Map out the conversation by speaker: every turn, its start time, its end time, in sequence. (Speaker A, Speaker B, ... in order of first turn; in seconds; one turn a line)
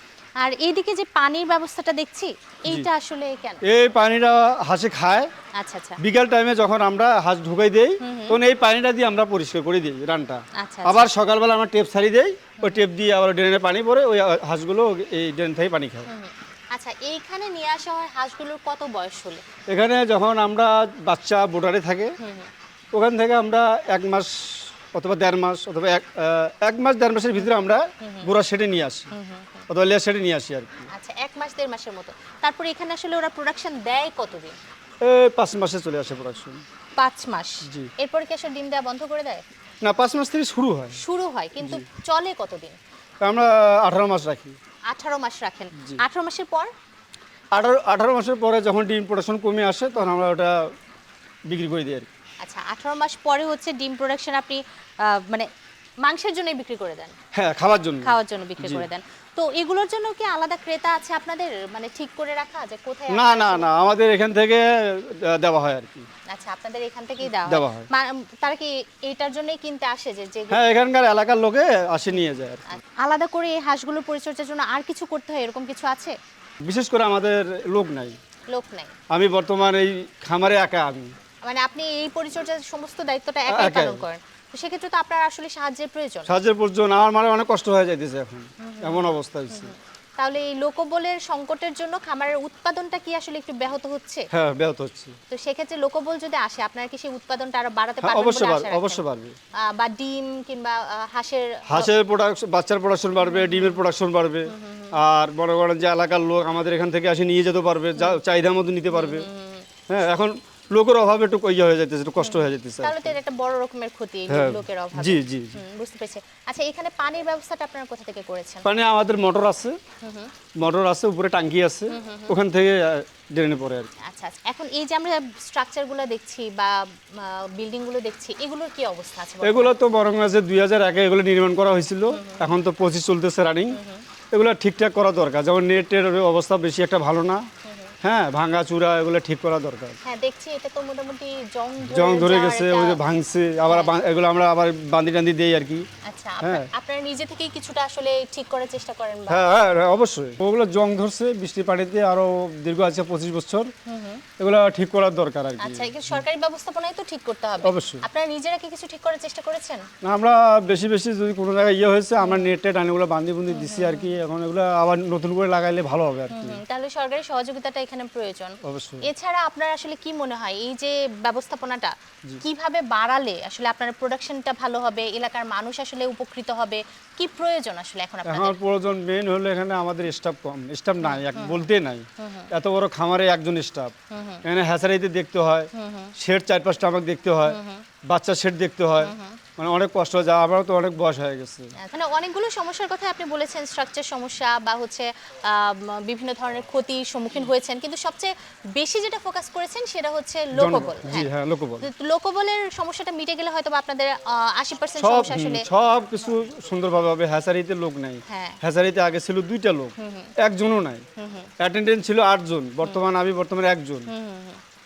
Speaker A: 0.4-3.6
Speaker B: 3.7-5.3
Speaker A: 5.6-6.0
Speaker B: 6.0-16.1
Speaker A: 8.0-8.4
Speaker A: 10.6-11.1
Speaker A: 16.1-19.4
Speaker B: 19.7-22.1
Speaker A: 22.2-22.5
Speaker B: 22.9-29.1
Speaker A: 28.0-28.3
Speaker A: 29.1-29.7
Speaker B: 29.7-30.9
Speaker A: 30.9-34.6
Speaker B: 35.0-36.6
Speaker A: 37.0-39.5
Speaker B: 39.8-41.0
Speaker A: 41.0-42.8
Speaker B: 43.2-44.6
Speaker A: 44.9-46.7
Speaker B: 47.5-50.7
Speaker B: 51.5-52.1
Speaker A: 52.4-55.5
Speaker A: 56.0-57.2
Speaker B: 57.3-58.9
Speaker A: 58.0-63.7
Speaker B: 63.1-66.1
Speaker A: 66.3-70.6
Speaker B: 67.4-67.9
Speaker B: 70.5-72.7
Speaker A: 72.7-76.2
Speaker B: 76.6-78.2
Speaker A: 78.5-78.9
Speaker B: 79.1-81.1
Speaker A: 81.5-86.4
Speaker B: 83.5-84.0
Speaker B: 86.3-89.7
Speaker A: 88.6-94.3
Speaker B: 94.3-95.2
Speaker A: 95.3-99.0
Speaker B: 98.0-99.4
Speaker A: 99.7-101.9
Speaker B: 101.7-109.3
Speaker A: 103.2-103.8
Speaker A: 104.5-105.0
Speaker A: 108.9-109.7
Speaker B: 109.9-113.2
Speaker A: 112.2-118.7
Speaker B: 114.3-115.6
Speaker B: 118.7-119.8
Speaker A: 120.0-120.3
Speaker B: 120.6-123.9
Speaker A: 121.9-122.3
Speaker A: 124.1-129.8
Speaker B: 129.4-133.8
Speaker A: 132.1-132.5
Speaker A: 133.8-134.0
Speaker B: 134.3-137.4
Speaker A: 137.7-137.9
Speaker B: 138.0-140.0
Speaker A: 140.0-143.0
Speaker B: 141.9-145.9
Speaker A: 143.7-143.9
Speaker A: 146.1-149.4
Speaker B: 146.4-146.7
Speaker B: 149.3-153.7
Speaker A: 153.9-154.2
Speaker B: 154.4-156.2
Speaker A: 155.6-159.8
Speaker B: 157.6-158.0
Speaker B: 160.0-166.6
Speaker A: 162.2-162.5
Speaker A: 163.5-164.1
Speaker A: 166.3-178.6
Speaker B: 168.6-169.1
Speaker B: 178.3-183.9
Speaker A: 181.0-181.6
Speaker A: 182.2-182.5
Speaker A: 184.1-184.4
Speaker B: 184.4-187.6
Speaker A: 185.8-186.1
Speaker A: 187.5-187.8
Speaker B: 188.1-191.7
Speaker A: 189.0-189.4
Speaker A: 191.8-205.7
Speaker B: 200.6-201.9
Speaker B: 205.0-211.0
Speaker A: 208.3-208.6
Speaker A: 210.0-210.3
Speaker A: 211.2-211.5
Speaker B: 211.6-214.1
Speaker A: 214.1-214.6